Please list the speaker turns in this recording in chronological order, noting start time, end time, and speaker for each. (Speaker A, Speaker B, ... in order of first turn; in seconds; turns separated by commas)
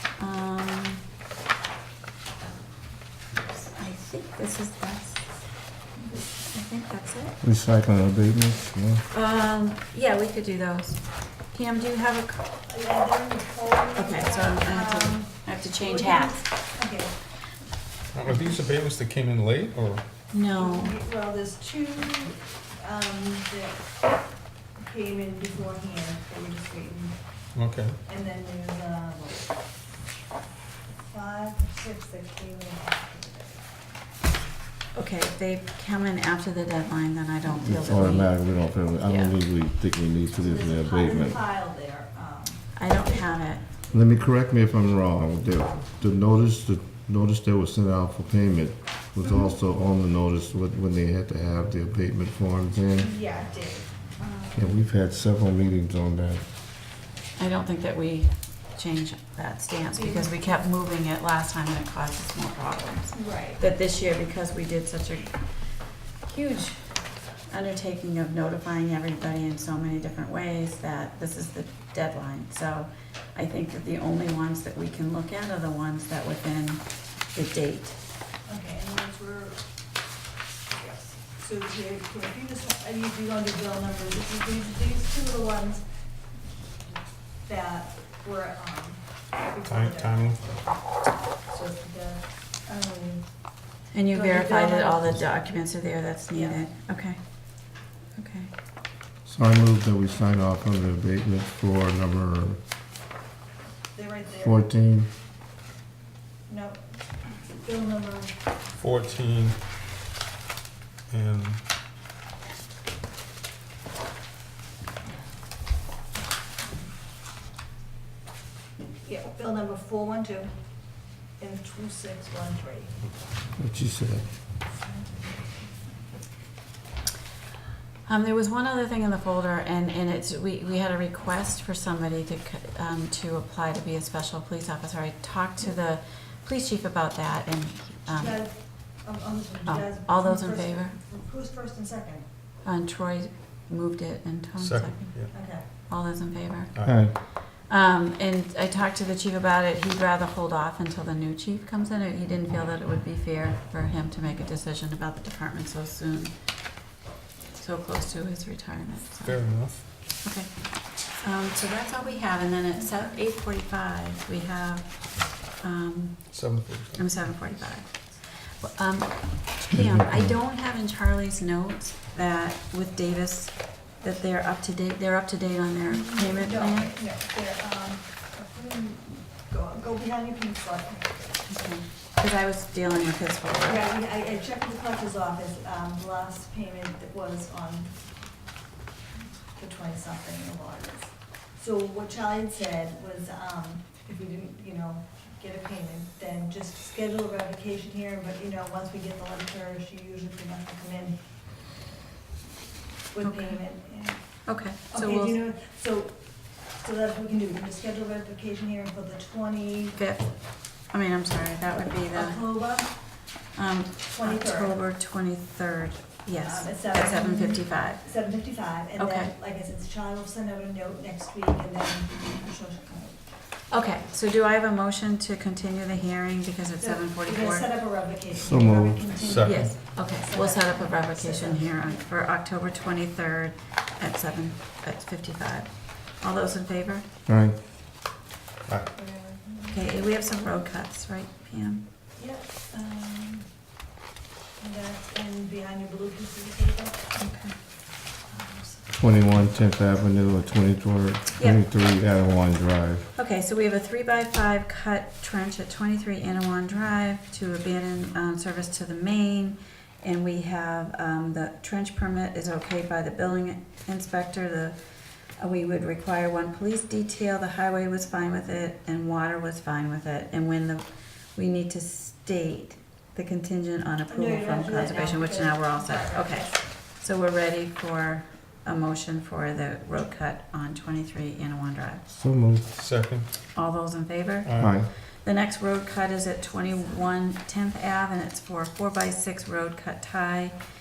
Speaker A: 0.2-1.0, Speaker A: 3.7-5.3, Speaker A: 6.3-7.4, Speaker B: 7.4-9.0, Speaker A: 9.1-12.4, Speaker C: 12.7-17.1, Speaker A: 13.9-16.5, Speaker D: 18.1-20.0, Speaker A: 20.3-20.9, Speaker C: 20.5-24.0, Speaker C: 24.8-27.2, Speaker D: 27.5-28.0, Speaker C: 28.1-29.4, Speaker C: 31.0-33.6, Speaker A: 34.9-39.3, Speaker B: 37.6-41.4, Speaker C: 40.3-43.1, Speaker A: 42.7-43.6, Speaker B: 43.9-53.1, Speaker C: 53.0-54.7, Speaker B: 54.5-56.4, Speaker A: 57.4-78.0, Speaker C: 60.0-60.4, Speaker C: 63.1-63.6, Speaker C: 78.4-79.6, Speaker C: 80.8-85.8, Speaker C: 87.4-90.8, Speaker D: 89.7-90.4, Speaker C: 91.4-93.2, Speaker A: 93.9-97.2, Speaker C: 94.1-95.3, Speaker C: 96.3-96.6, Speaker A: 98.1-98.5, Speaker B: 99.2-102.6, Speaker C: 103.9-104.6, Speaker B: 104.4-105.1, Speaker C: 106.5-106.8, Speaker C: 107.6-108.3, Speaker D: 108.8-109.6, Speaker D: 111.1-111.6, Speaker C: 119.0-120.5, Speaker C: 121.4-122.9, Speaker B: 123.6-124.2, Speaker A: 128.1-138.4, Speaker C: 138.1-142.2, Speaker A: 139.7-141.0, Speaker A: 142.6-145.2, Speaker D: 144.6-145.3, Speaker C: 145.3-145.7, Speaker A: 145.9-156.3, Speaker B: 146.8-147.1, Speaker A: 157.6-159.4, Speaker D: 159.2-159.8, Speaker A: 160.2-166.3, Speaker D: 166.3-167.2, Speaker A: 166.9-176.9, Speaker B: 169.8-170.3, Speaker C: 175.9-181.3, Speaker A: 181.5-183.8, Speaker C: 183.7-187.9, Speaker C: 189.6-201.2, Speaker C: 203.1-210.0, Speaker A: 203.2-203.5, Speaker A: 204.4-205.4, Speaker A: 209.9-212.4, Speaker C: 212.1-212.9, Speaker A: 213.5-218.0, Speaker C: 214.1-214.8, Speaker C: 216.4-223.2, Speaker A: 219.0-219.3, Speaker A: 223.7-227.7, Speaker C: 226.8-232.0, Speaker B: 228.3-229.0, Speaker D: 229.2-229.7, Speaker A: 229.4-237.0, Speaker B: 237.2-237.6, Speaker C: 238.9-239.9, Speaker A: 239.7-241.8, Speaker C: 242.2-243.5, Speaker C: 244.6-247.1, Speaker A: 247.2-247.5, Speaker C: 248.3-248.9, Speaker B: 248.9-253.1, Speaker A: 253.1-264.8, Speaker A: 265.4-282.0, Speaker C: 274.1-276.6, Speaker B: 282.1-282.6, Speaker D: 282.8-283.3, Speaker A: 283.5-290.6, Speaker D: 284.4-284.8, Speaker B: 284.6-284.9